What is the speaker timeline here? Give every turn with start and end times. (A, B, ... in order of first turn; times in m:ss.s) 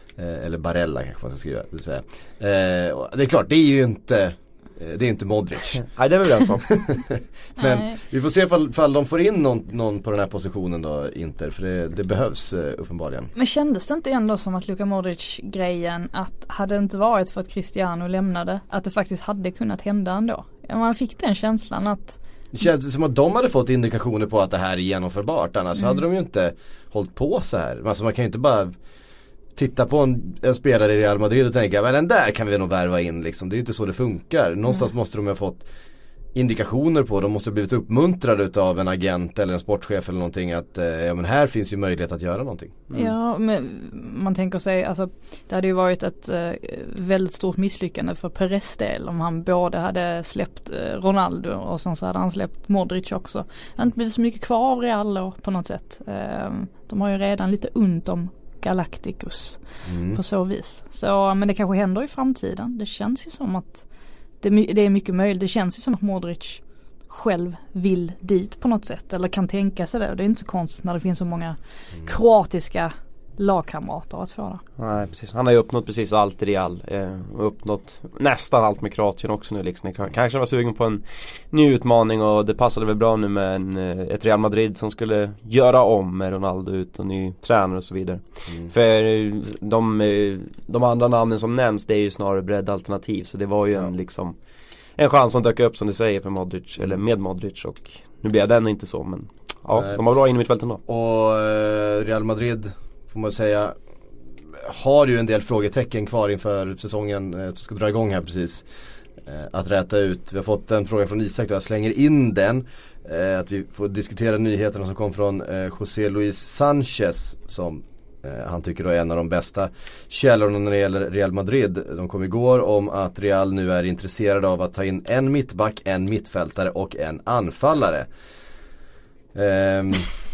0:00.2-0:05.8 A
0:05.8-0:06.7 B
0:06.7-0:13.3 A
0:07.6-0:08.0 C
0:13.3-0:22.2 C
0:22.5-0:28.7 A
0:29.6-0:35.7 A
0:36.3-0:42.9 A
0:42.9-1:03.8 C
0:59.8-1:00.2 A
1:04.4-1:14.6 C
1:14.8-1:34.3 B
1:35.0-1:40.8 B
1:39.7-1:40.0 A
1:40.9-1:43.8 A
1:44.5-1:48.6 A
1:49.2-2:08.1 A
2:09.3-2:10.1 A